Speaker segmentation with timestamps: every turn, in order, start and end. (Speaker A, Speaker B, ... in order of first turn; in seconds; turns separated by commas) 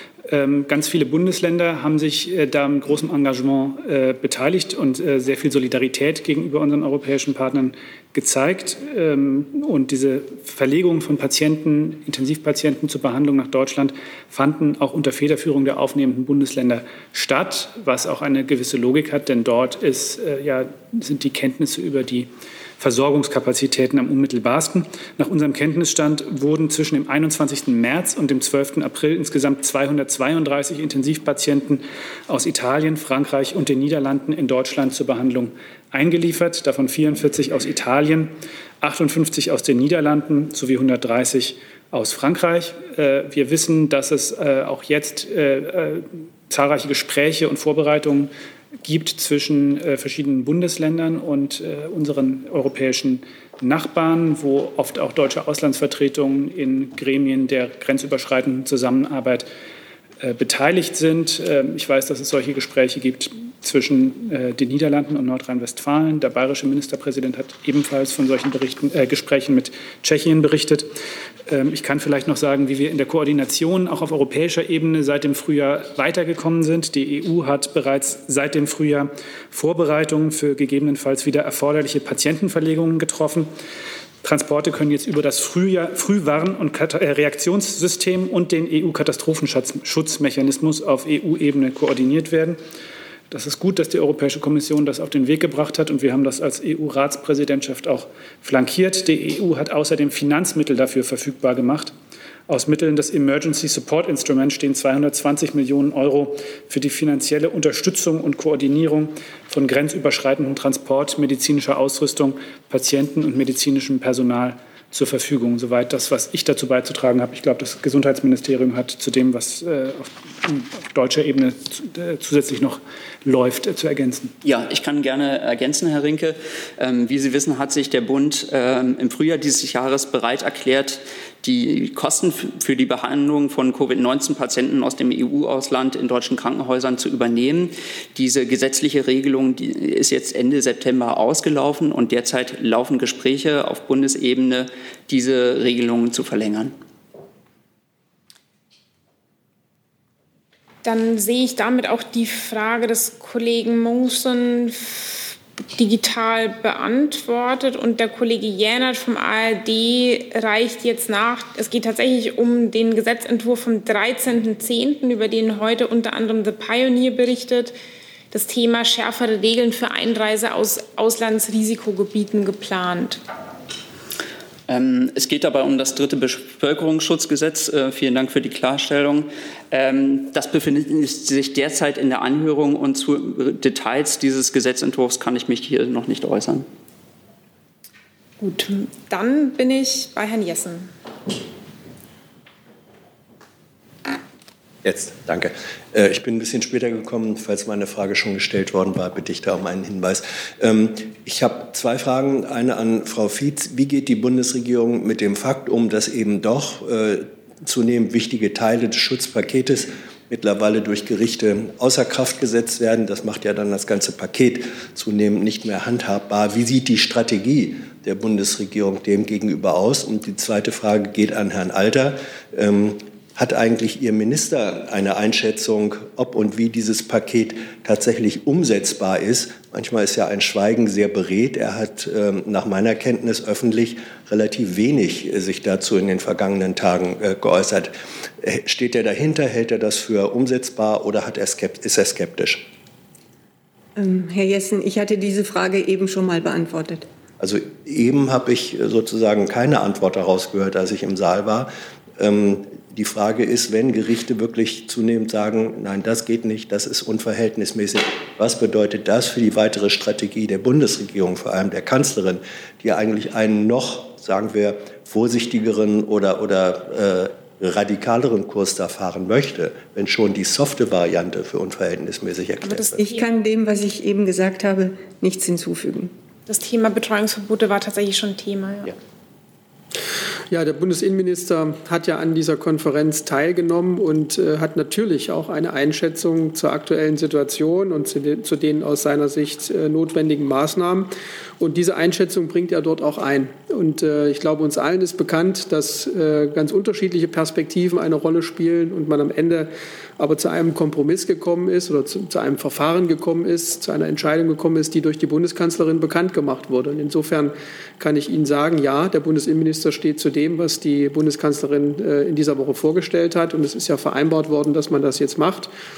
Speaker A: 0.3-48.3, Speaker A: 48.8-59.5, Speaker A: 60.2-70.9, Speaker A: 71.5-83.5, Speaker A: 84.2-92.6, Speaker A: 93.3-101.9, Speaker A: 102.5-124.3, Speaker B: 124.4-146.7, Speaker C: 150.8-167.8, Speaker C: 168.3-173.2, Speaker B: 174.7-186.7, Speaker C: 188.4-190.9, Speaker D: 194.8-242.6, Speaker E: 244.0-247.1, Speaker D: 247.4-273.0, Speaker C: 272.7-273.3, Speaker E: 273.0-276.1, Speaker C: 276.5-278.9, Speaker F: 280.5-315.7